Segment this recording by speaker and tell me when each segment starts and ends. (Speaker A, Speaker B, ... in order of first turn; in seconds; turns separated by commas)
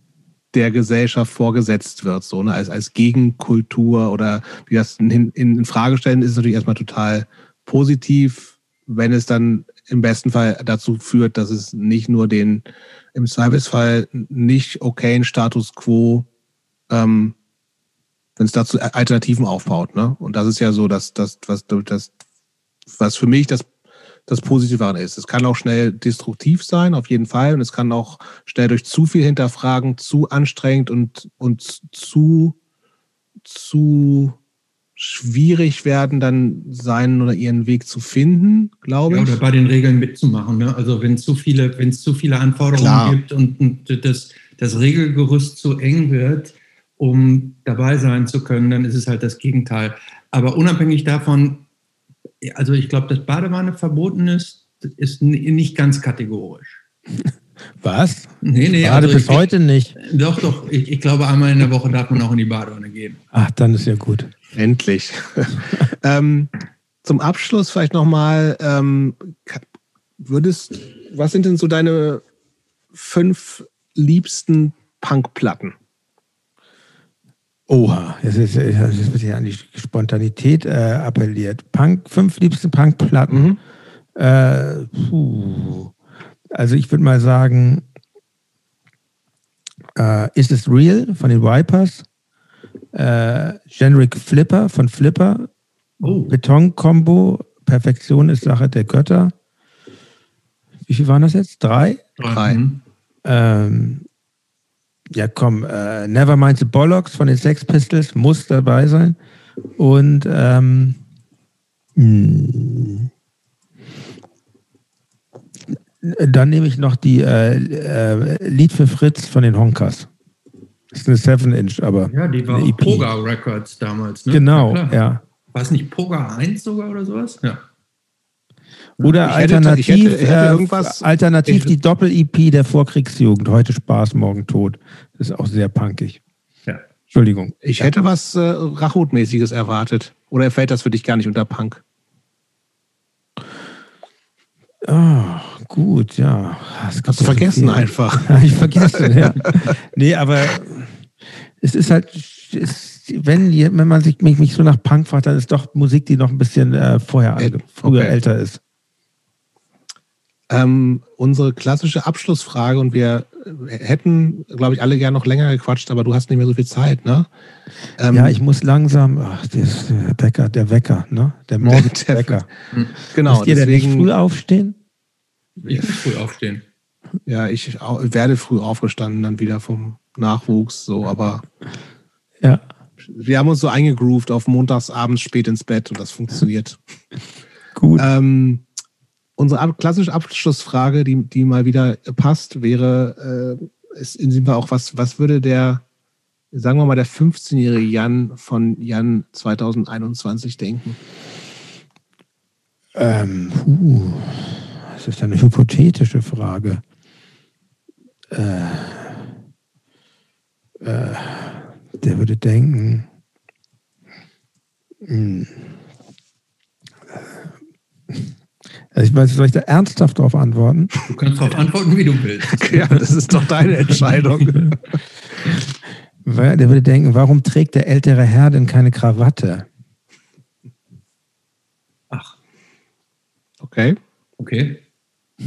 Speaker A: 0.5-16.3, Speaker A: 16.9-17.3, Speaker A: 18.4-22.2, Speaker A: 22.9-23.7, Speaker A: 24.3-32.5, Speaker A: 33.4-34.4, Speaker A: 35.0-39.4, Speaker B: 39.1-51.6, Speaker A: 42.7-43.2, Speaker B: 52.4-56.8, Speaker C: 57.8-60.0, Speaker B: 58.4-59.5, Speaker B: 60.0-63.2, Speaker C: 63.3-64.3, Speaker A: 64.5-66.5, Speaker A: 67.0-69.6, Speaker A: 70.2-72.2, Speaker A: 72.9-75.7, Speaker C: 77.7-83.5, Speaker A: 83.3-83.6, Speaker C: 84.2-85.9, Speaker C: 86.5-87.8, Speaker C: 90.0-92.0, Speaker C: 92.9-95.5, Speaker B: 96.0-96.3, Speaker C: 96.0-99.3, Speaker C: 100.9-102.1, Speaker B: 102.2-102.8, Speaker A: 102.3-102.6, Speaker C: 103.2-104.0, Speaker C: 105.1-109.2, Speaker C: 109.8-111.0, Speaker C: 111.9-113.1, Speaker C: 116.0-120.1, Speaker C: 120.9-123.1, Speaker B: 122.1-127.6, Speaker C: 124.3-125.2, Speaker C: 129.0-136.2, Speaker A: 129.2-131.7, Speaker C: 137.1-138.0, Speaker A: 137.6-141.8, Speaker C: 144.8-158.6, Speaker A: 147.0-149.7, Speaker A: 157.4-158.2, Speaker A: 160.5-167.3, Speaker A: 168.0-168.3, Speaker C: 168.1-172.5, Speaker A: 171.6-172.4, Speaker A: 173.1-174.1, Speaker C: 173.2-174.8, Speaker B: 175.6-176.6, Speaker A: 177.2-181.4, Speaker A: 183.0-186.8, Speaker C: 187.8-188.1, Speaker A: 187.9-188.6, Speaker A: 189.4-195.8, Speaker A: 196.5-201.0, Speaker C: 202.9-206.8, Speaker C: 208.3-209.3, Speaker C: 210.8-213.1, Speaker C: 215.0-215.8, Speaker C: 217.1-217.4, Speaker C: 218.9-220.9, Speaker B: 221.1-222.9, Speaker A: 222.5-224.8, Speaker C: 226.2-229.7, Speaker A: 233.6-234.0, Speaker B: 234.4-234.8